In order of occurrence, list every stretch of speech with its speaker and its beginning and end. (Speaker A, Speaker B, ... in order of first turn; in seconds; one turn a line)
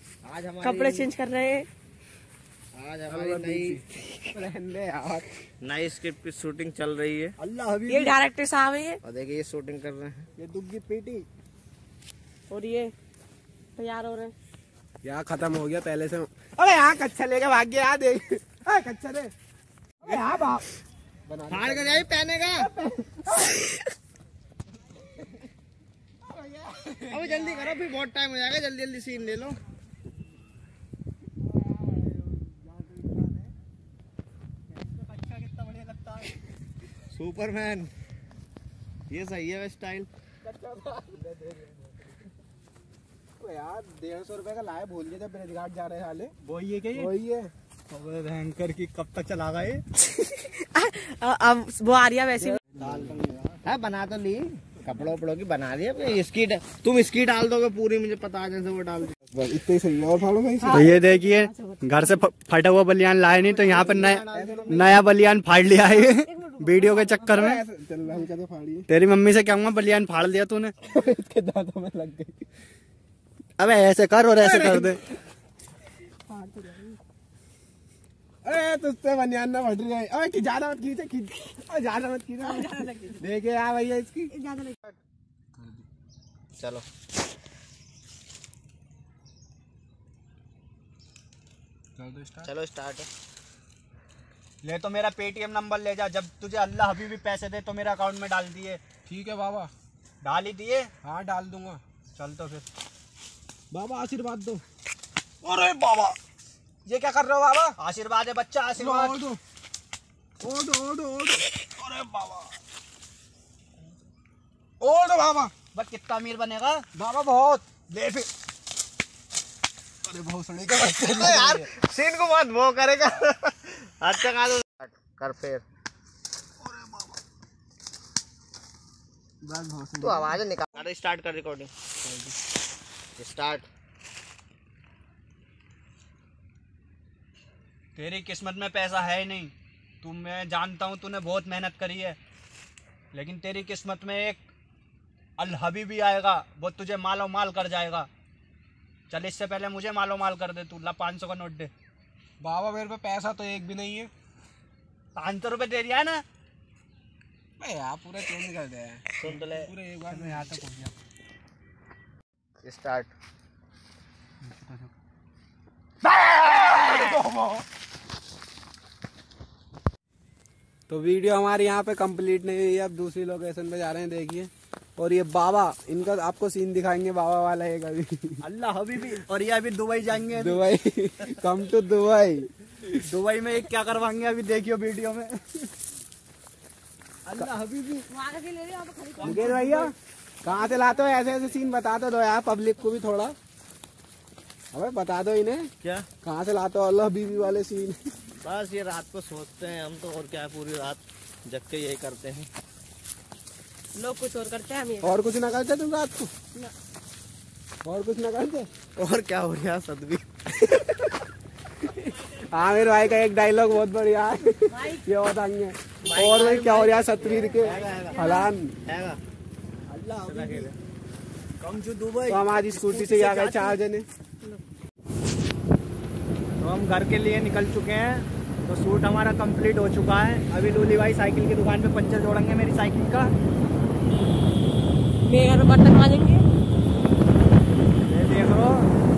Speaker A: 0.2-1.1
Speaker B: 0.6-1.7
Speaker A: 2.7-3.8
Speaker C: 3.1-5.3
Speaker A: 5.6-7.3
Speaker D: 7.4-8.2
Speaker B: 7.9-9.0
Speaker A: 9.0-10.3
Speaker C: 10.4-11.2
Speaker B: 12.5-12.9
Speaker B: 13.8-14.3
Speaker C: 15.0-19.3
Speaker C: 20.0-20.7
Speaker C: 21.3-23.6
Speaker A: 21.5-22.7
Speaker C: 26.2-27.7
Speaker A: 27.1-29.6
Speaker C: 31.7-33.5
Speaker D: 34.7-36.4
Speaker A: 37.1-37.9
Speaker A: 39.1-40.1
Speaker C: 40.4-41.9
Speaker C: 43.4-46.4
Speaker D: 46.4-47.1
Speaker C: 46.9-47.5
Speaker D: 47.9-49.8
Speaker B: 50.4-52.6
Speaker C: 52.4-53.4
Speaker D: 52.8-53.2
Speaker A: 53.6-59.2
Speaker C: 59.3-60.9
Speaker B: 60.6-62.2
Speaker D: 60.7-67.6
Speaker A: 63.3-65.1
Speaker C: 63.8-65.0
Speaker B: 66.0-67.3
Speaker C: 67.3-68.9
Speaker D: 68.9-70.7
Speaker C: 70.9-72.4
Speaker D: 73.6-75.0
Speaker C: 74.4-75.0
Speaker C: 76.3-76.6
Speaker C: 78.4-84.3
Speaker B: 82.4-83.2
Speaker B: 84.3-84.8
Speaker C: 85.6-85.8
Speaker A: 86.6-86.8
Speaker C: 92.0-92.5
Speaker A: 92.4-93.1
Speaker D: 94.6-98.8
Speaker C: 99.1-99.7
Speaker D: 100.2-100.9
Speaker C: 101.0-101.8
Speaker D: 102.1-102.7
Speaker C: 103.7-104.6
Speaker C: 105.4-106.2
Speaker C: 106.9-107.8
Speaker D: 107.8-109.2
Speaker C: 108.8-109.4
Speaker C: 110.4-112.5
Speaker C: 114.8-115.5
Speaker D: 115.7-116.8
Speaker C: 117.0-118.3
Speaker C: 120.0-121.7
Speaker A: 120.9-125.6
Speaker C: 129.4-130.4
Speaker A: 130.0-131.7
Speaker C: 132.0-132.3
Speaker A: 133.2-133.7
Speaker D: 137.9-142.2
Speaker D: 143.1-144.4
Speaker D: 145.4-148.1
Speaker D: 149.1-151.7
Speaker C: 152.4-154.1
Speaker D: 155.2-156.2
Speaker C: 157.6-160.7
Speaker A: 159.2-159.7
Speaker D: 160.1-160.9
Speaker A: 162.6-163.1
Speaker D: 164.4-164.9
Speaker C: 166.2-167.5
Speaker C: 170.9-178.4
Speaker D: 178.4-180.7
Speaker C: 180.3-182.5
Speaker D: 182.9-185.4
Speaker D: 187.3-188.1
Speaker B: 188.1-189.6
Speaker D: 189.2-189.9
Speaker C: 189.2-193.4
Speaker C: 194.7-195.7
Speaker A: 195.8-196.1
Speaker C: 196.2-198.0
Speaker A: 198.4-202.5
Speaker B: 203.9-205.2
Speaker C: 205.0-206.3
Speaker C: 207.8-208.7
Speaker A: 209.0-210.3
Speaker C: 211.9-218.8
Speaker B: 214.7-215.0
Speaker D: 216.1-216.4
Speaker A: 216.1-218.2
Speaker D: 217.6-217.9
Speaker B: 217.9-218.5
Speaker A: 218.8-219.2
Speaker D: 219.9-220.8
Speaker A: 220.3-220.7
Speaker D: 221.6-223.8
Speaker C: 222.3-224.1
Speaker D: 226.6-233.3
Speaker B: 235.3-236.4
Speaker D: 238.1-238.9